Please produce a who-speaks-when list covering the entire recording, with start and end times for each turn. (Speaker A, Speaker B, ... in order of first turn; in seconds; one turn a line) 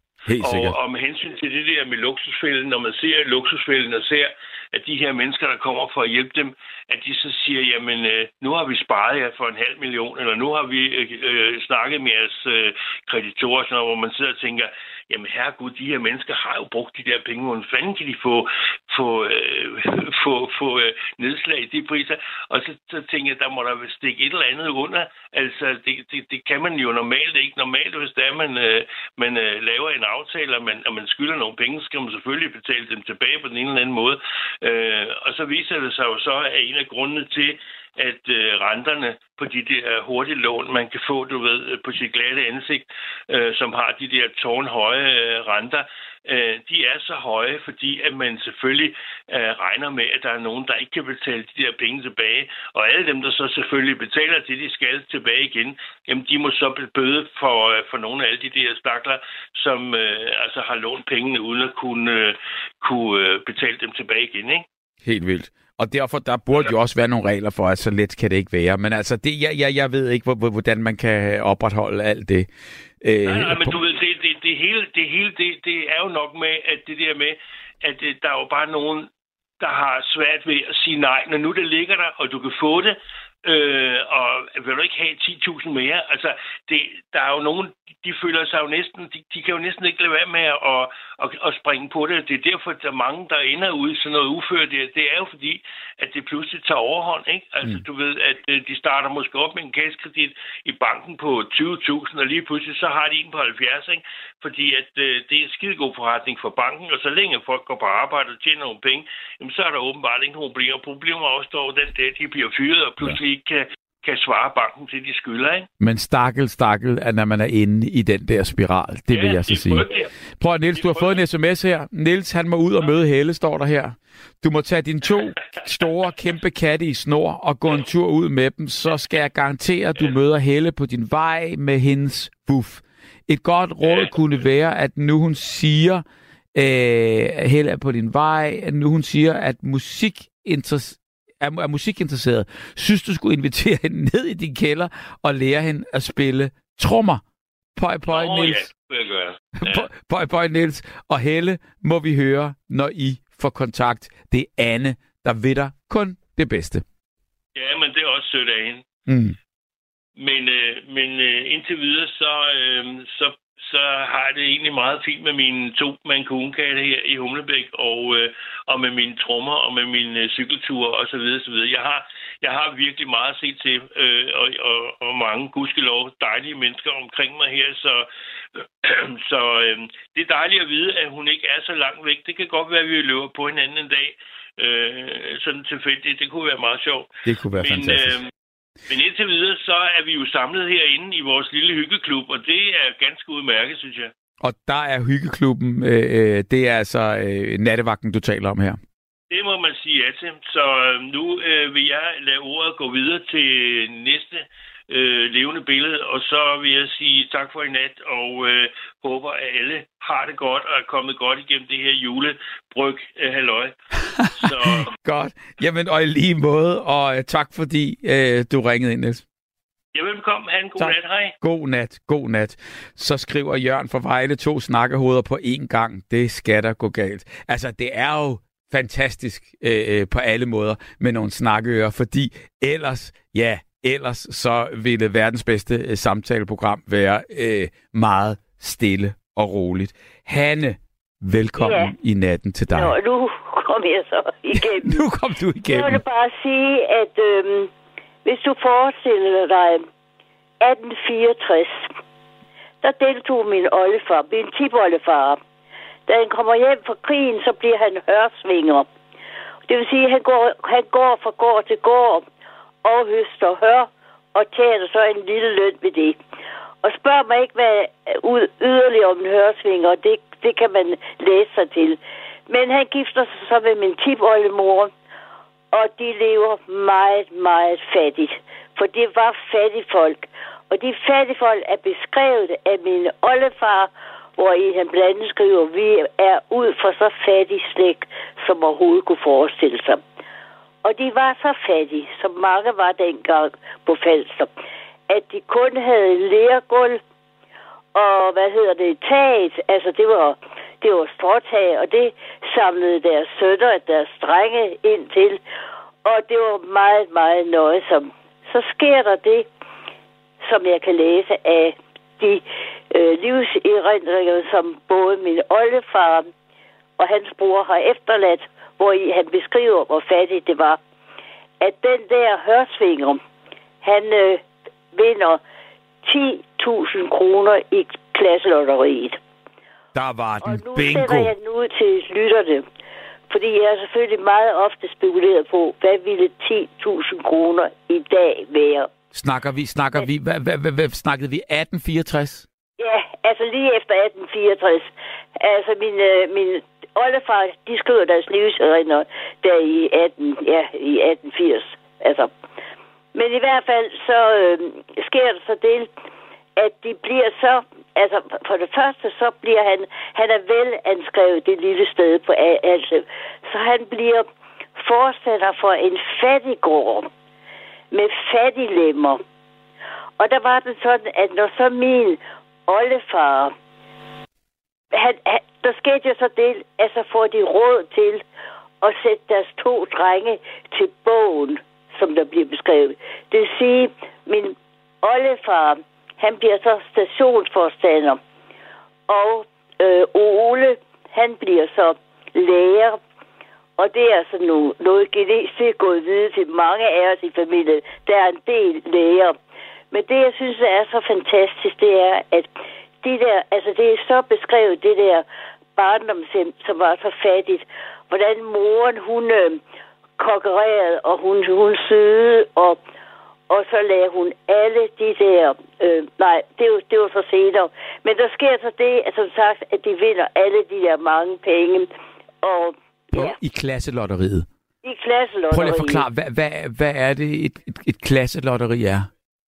Speaker A: 0.3-0.8
Speaker B: 0.4-64.7
Speaker A: 65.0-72.5
Speaker A: 73.0-73.8
Speaker B: 73.3-79.1
Speaker B: 79.6-115.7
Speaker A: 115.8-136.0
Speaker B: 119.1-120.1
Speaker B: 120.8-121.1
Speaker B: 133.9-134.1
Speaker A: 136.6-147.2
Speaker A: 147.8-148.7
Speaker B: 148.1-149.9
Speaker A: 149.6-156.8
Speaker B: 157.6-158.8
Speaker A: 159.1-159.4
Speaker B: 160.2-188.3
Speaker A: 187.2-188.2
Speaker B: 188.9-194.1
Speaker A: 194.4-198.8
Speaker B: 199.3-213.7
Speaker A: 214.1-219.2
Speaker B: 214.3-214.9
Speaker B: 219.9-221.3
Speaker A: 220.8-243.0
Speaker C: 241.6-241.9
Speaker C: 242.7-245.0
Speaker A: 244.6-246.0
Speaker C: 245.7-247.7
Speaker C: 248.2-249.8
Speaker C: 250.6-251.9
Speaker C: 252.8-255.4
Speaker C: 256.1-258.9
Speaker C: 259.7-262.2
Speaker C: 262.8-266.2
Speaker C: 266.8-274.9
Speaker C: 275.7-290.0
Speaker C: 290.8-294.5
Speaker C: 295.1-297.0
Speaker C: 297.9-305.4
Speaker C: 306.1-309.5
Speaker C: 310.4-316.3
Speaker C: 317.0-320.8
Speaker C: 321.6-323.2
Speaker C: 323.8-325.4
Speaker C: 326.0-329.2
Speaker A: 329.9-331.3
Speaker C: 330.4-332.6
Speaker C: 333.3-338.9
Speaker A: 339.1-342.5
Speaker C: 342.8-352.3
Speaker C: 353.1-355.9
Speaker C: 356.6-367.1
Speaker C: 367.9-369.2
Speaker C: 370.2-373.5
Speaker C: 374.9-378.2
Speaker C: 378.8-388.2
Speaker C: 389.1-393.0
Speaker C: 393.8-399.4
Speaker C: 399.9-402.5
Speaker C: 403.0-405.2
Speaker C: 405.8-409.6
Speaker C: 410.2-412.8
Speaker C: 413.5-421.9
Speaker C: 422.4-423.4
Speaker A: 423.1-424.5
Speaker C: 424.8-426.0
Speaker A: 425.5-429.1